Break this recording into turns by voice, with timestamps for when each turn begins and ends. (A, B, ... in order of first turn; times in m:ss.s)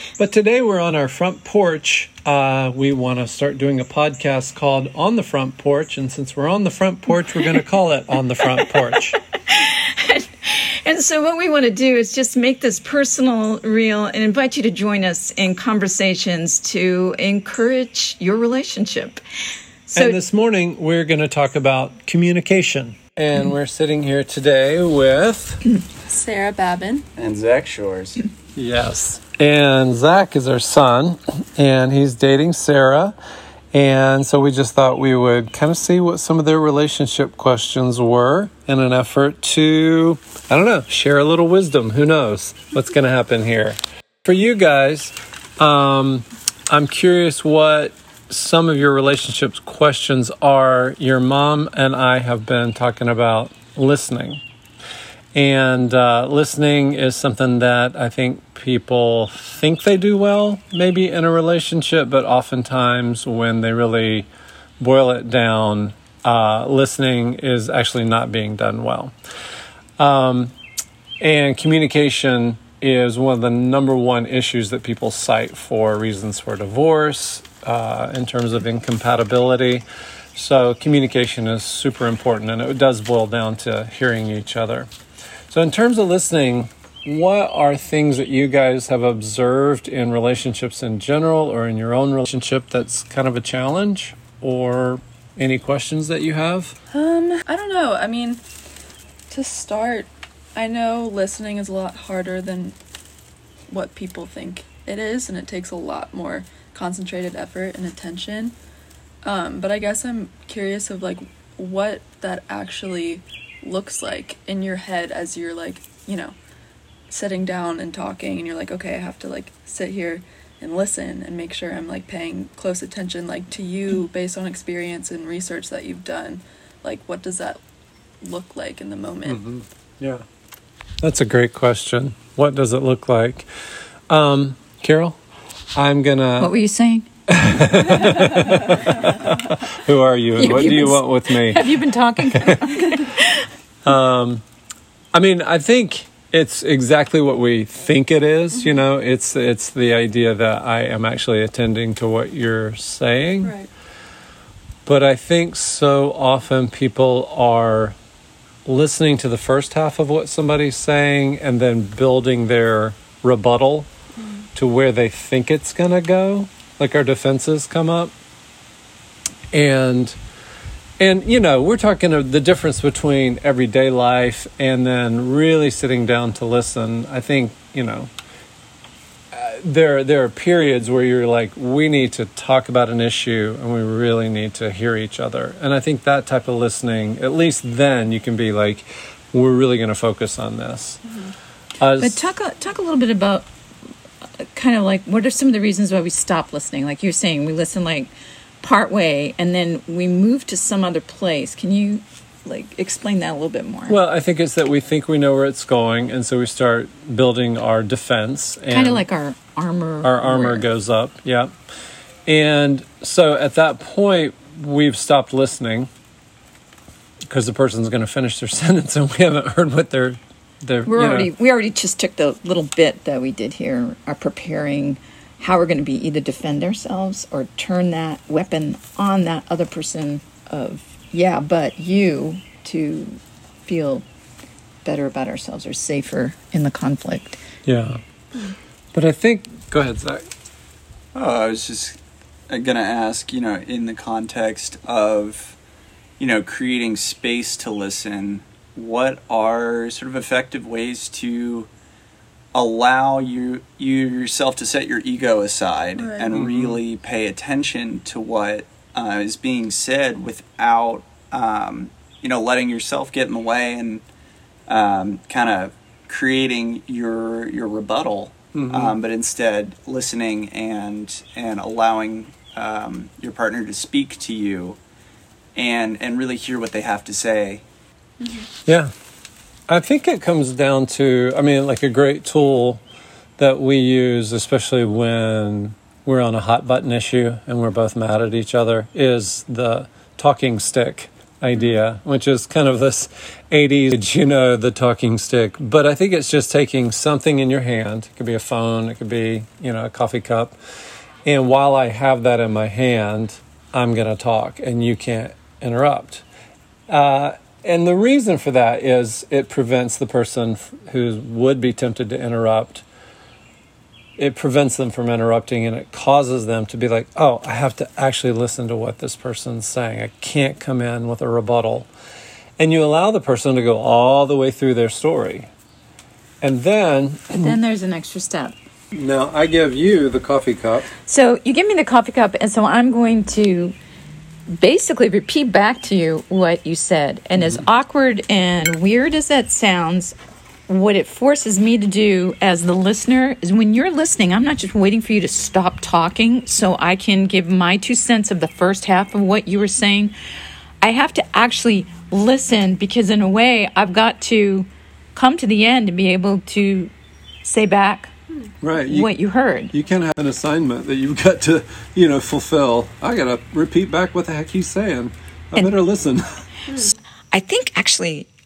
0:00.2-0:09.2 A
0:09.4-0:19.2 B
0:19.9-0:20.2 B
0:19.9-0:25.6 A
0:26.1-0:27.1 C
0:27.2-0:28.2 D
0:28.5-0:33.2 A
0:33.7-0:54.4 A
0:55.3-1:04.3 A
1:04.8-1:09.1 A
1:10.0-1:10.5 A
1:11.2-1:24.9 A
1:25.5-1:36.8 A
1:36.9-1:38.4 C
1:39.3-1:42.8 C
1:43.7-1:48.6 C
1:49.2-1:56.3 C
1:57.1-2:07.6 C
2:08.2-2:09.4 C
2:09.2-2:10.2 A
2:11.0-2:13.5 A
2:14.1-2:15.2 A
2:15.7-2:16.5 A
2:16.4-2:17.1 B
2:17.3-2:21.7 A
2:20.4-2:23.5 B
2:22.2-2:22.7 A
2:23.8-2:24.4 A
2:25.1-2:33.5 A
2:28.5-2:28.8 C
2:33.4-2:33.7 C
2:34.9-2:38.0 A
2:38.6-2:43.9 A
2:44.2-2:44.4 C
2:44.6-2:48.1 A
2:49.5-2:50.2 A
2:51.0-2:58.1 A
2:59.3-3:11.0 A
3:11.0-3:11.3 C
3:11.8-3:12.3 A
3:12.0-3:13.5 B
3:14.4-3:24.0 B
3:23.9-3:29.0 A
3:28.7-3:30.6 B
3:30.0-3:31.5 A
3:32.3-3:35.9 A
3:37.3-3:41.3 A
3:40.9-3:54.1 B
3:54.8-3:57.4 B
3:57.7-3:58.0 A
3:58.9-4:00.3 A
4:01.1-4:02.0 D
4:02.5-4:05.6 D
4:06.2-4:11.7 D
4:12.5-4:24.0 D
4:16.0-4:16.3 C
4:16.3-4:16.8 A
4:24.7-4:34.8 D
4:28.5-4:29.0 A
4:35.6-4:37.6 D
4:38.2-4:38.5 C
4:38.7-4:38.9 A
4:39.7-4:42.8 A
4:43.4-5:00.6 A
5:01.2-5:06.2 A
5:06.9-5:12.8 A
5:14.2-5:21.9 A
5:22.6-5:25.5 A
5:26.4-5:27.6 A
5:27.4-5:28.6 B
5:28.9-5:30.9 A
5:31.0-5:33.8 B
5:34.5-5:40.2 B
5:37.4-5:37.6 A
5:40.7-5:50.2 B
5:50.8-5:56.9 B
5:57.4-5:58.1 B
5:58.6-5:59.1 A
5:58.8-5:59.7 B
5:59.7-6:06.4 A
6:07.3-6:08.3 B